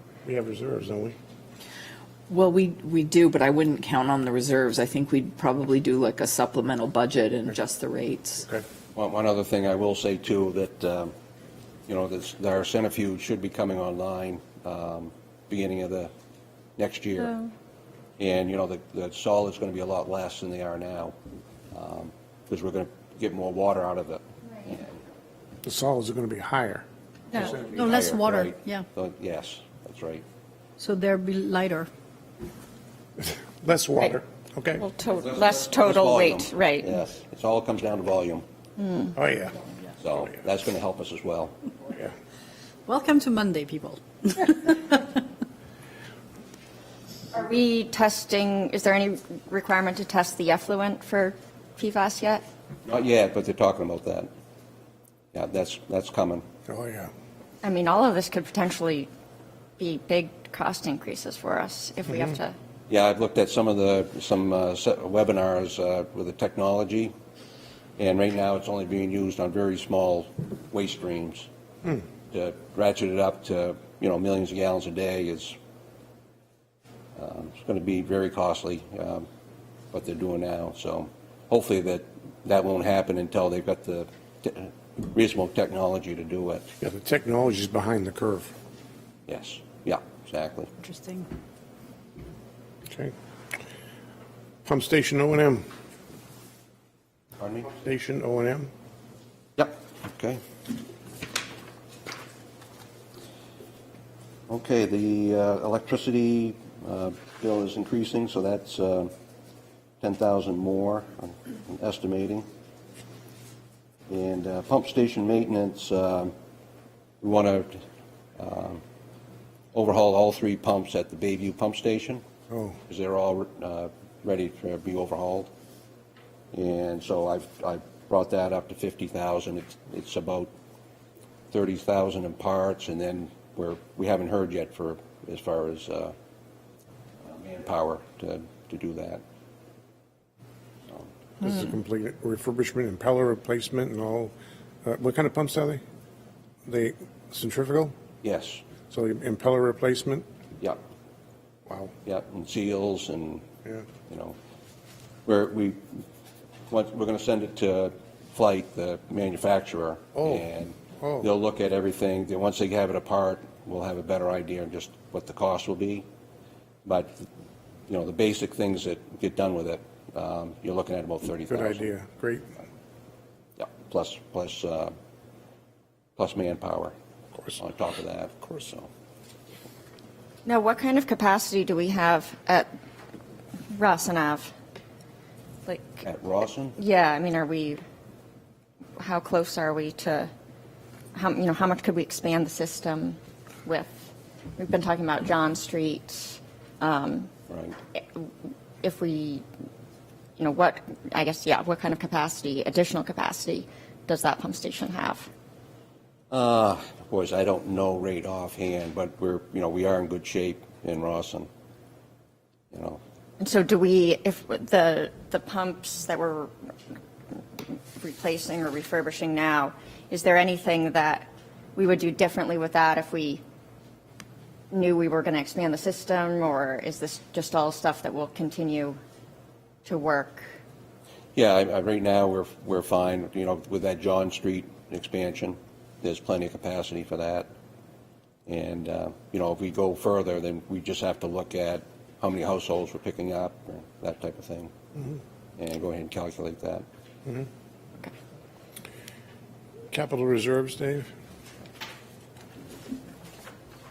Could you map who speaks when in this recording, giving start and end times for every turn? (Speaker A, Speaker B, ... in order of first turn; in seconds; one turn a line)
Speaker A: 0.2-1.1
Speaker B: 2.3-8.4
Speaker C: 8.9-11.1
Speaker C: 11.9-16.1
Speaker C: 16.8-17.4
Speaker C: 18.2-21.1
Speaker C: 21.7-25.0
Speaker A: 25.6-26.8
Speaker C: 27.3-30.2
Speaker D: 27.5-28.9
Speaker D: 30.8-31.9
Speaker A: 33.2-34.9
Speaker E: 34.8-36.9
Speaker C: 35.2-38.4
Speaker E: 38.8-39.1
Speaker A: 39.1-39.6
Speaker C: 40.0-41.5
Speaker D: 42.9-45.0
Speaker E: 47.3-52.4
Speaker C: 52.9-54.3
Speaker C: 55.3-56.4
Speaker A: 56.7-57.1
Speaker E: 57.6-59.1
Speaker E: 59.8-62.6
Speaker C: 62.9-67.1
Speaker C: 68.0-71.5
Speaker C: 72.3-75.6
Speaker C: 77.2-79.2
Speaker C: 79.9-86.6
Speaker A: 86.8-88.5
Speaker C: 89.3-90.7
Speaker D: 90.8-91.3
Speaker A: 92.9-93.1
Speaker A: 94.6-95.6
Speaker C: 97.4-97.7
Speaker A: 97.7-98.7
Speaker C: 99.6-100.4
Speaker C: 104.5-109.1
Speaker C: 110.0-112.5
Speaker C: 114.1-116.3
Speaker C: 117.2-117.8
Speaker C: 118.4-118.8
Speaker C: 119.7-122.2
Speaker A: 122.5-122.8
Speaker C: 122.9-125.5
Speaker C: 126.5-130.5
Speaker C: 131.5-136.1
Speaker C: 137.2-139.2
Speaker A: 141.4-144.3
Speaker A: 144.8-145.8
Speaker A: 146.7-147.9
Speaker C: 148.2-148.6
Speaker A: 148.9-150.2
Speaker A: 151.7-151.9
Speaker C: 152.0-153.4
Speaker C: 154.0-154.3
Speaker C: 155.2-156.0
Speaker C: 156.7-166.1
Speaker A: 160.2-160.4
Speaker A: 161.0-161.3
Speaker C: 166.8-167.2
Speaker C: 167.9-171.9
Speaker A: 171.5-172.6
Speaker C: 173.6-174.9
Speaker C: 176.2-176.9
Speaker C: 177.6-178.9
Speaker E: 180.4-182.7
Speaker E: 183.7-184.5
Speaker E: 185.7-186.0
Speaker C: 186.0-186.8
Speaker E: 186.8-187.8
Speaker E: 189.0-190.3
Speaker E: 191.1-197.3
Speaker C: 197.5-197.8
Speaker E: 197.9-198.3
Speaker E: 198.8-199.4
Speaker E: 200.4-205.3
Speaker C: 206.3-211.5
Speaker C: 212.7-213.0
Speaker E: 213.4-216.5
Speaker E: 218.0-223.4
Speaker E: 224.7-229.0
Speaker E: 229.8-230.6
Speaker C: 231.3-237.5
Speaker C: 238.5-244.7
Speaker A: 244.9-245.2
Speaker C: 245.6-246.8
Speaker A: 249.9-251.1